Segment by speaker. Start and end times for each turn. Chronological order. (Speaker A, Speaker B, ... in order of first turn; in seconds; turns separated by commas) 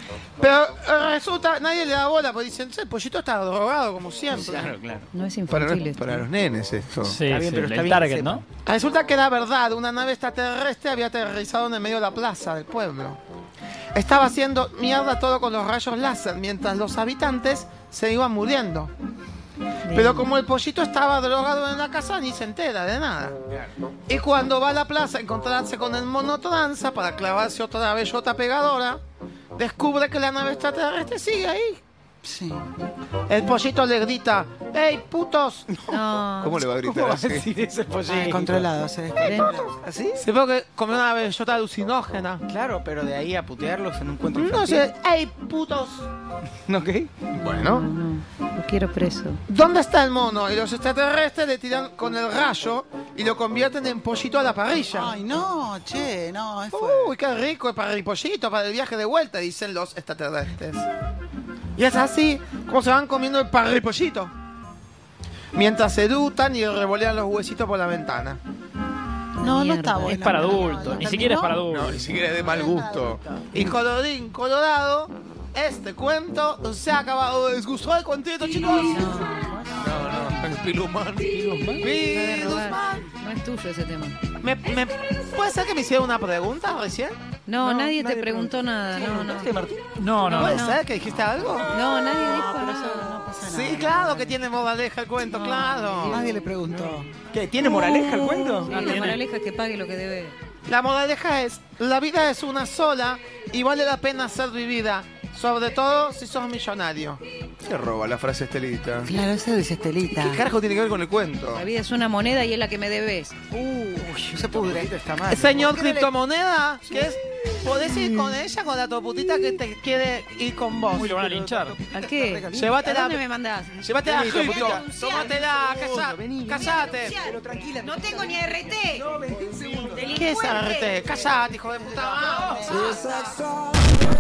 Speaker A: 0.4-4.8, Speaker B: 4.3-5.1, Speaker C: 5.1-6.3, Speaker D: 5.5-7.2, Speaker E: 7.0-8.4, Speaker B: 7.3-8.4, Speaker A: 8.6-13.2, Speaker A: 13.9-18.9, Speaker C: 19.9-20.3, Speaker A: 19.9-23.4, Speaker A: 24.1-29.0, Speaker A: 29.6-31.8, Speaker F: 32.2-32.7, Speaker A: 33.3-35.7, Speaker C: 35.9-36.7, Speaker D: 36.4-37.5, Speaker B: 36.7-38.6, Speaker F: 38.1-39.7, Speaker C: 39.2-39.7, Speaker B: 39.8-40.2, Speaker A: 40.2-42.4, Speaker B: 42.5-44.9, Speaker A: 44.3-46.1, Speaker B: 46.7-47.3, Speaker A: 47.4-47.9, Speaker C: 47.4-49.4, Speaker A: 49.5-55.1, Speaker F: 54.9-57.2, Speaker A: 56.7-60.9, Speaker A: 61.8-64.3, Speaker A: 65.5-68.4, Speaker C: 69.4-70.7, Speaker F: 69.4-73.8, Speaker E: 70.0-72.2, Speaker D: 71.7-73.2, Speaker A: 73.5-79.3, Speaker C: 78.7-79.5, Speaker F: 78.7-80.4, Speaker D: 79.8-81.3, Speaker E: 81.3-81.8, Speaker B: 81.5-81.8, Speaker A: 81.8-83.1, Speaker C: 81.8-84.2, Speaker A: 84.4-87.2, Speaker C: 87.5-89.5, Speaker B: 87.6-89.8, Speaker E: 90.0-90.6, Speaker C: 90.3-90.8, Speaker A: 90.3-91.7, Speaker C: 91.7-93.2, Speaker F: 92.0-94.4, Speaker A: 93.4-96.2, Speaker C: 95.2-96.5, Speaker F: 96.1-97.1, Speaker B: 96.8-99.2, Speaker C: 97.7-100.4, Speaker E: 98.7-99.2, Speaker A: 100.7-107.2, Speaker D: 107.6-109.1, Speaker F: 109.0-110.4, Speaker A: 110.2-110.5, Speaker D: 110.4-111.7, Speaker C: 111.5-113.3, Speaker B: 113.5-115.7, Speaker F: 114.2-114.9, Speaker A: 115.3-121.1, Speaker F: 115.5-116.1, Speaker B: 116.9-117.1, Speaker B: 117.7-118.4, Speaker B: 120.9-123.2, Speaker E: 120.9-121.8, Speaker C: 121.9-123.7, Speaker A: 122.5-123.2, Speaker A: 123.8-127.2, Speaker B: 123.9-130.3, Speaker C: 124.4-125.3, Speaker C: 126.6-129.0, Speaker C: 129.9-131.0, Speaker A: 130.2-132.9, Speaker B: 132.0-132.8, Speaker F: 132.4-133.4, Speaker C: 132.7-133.2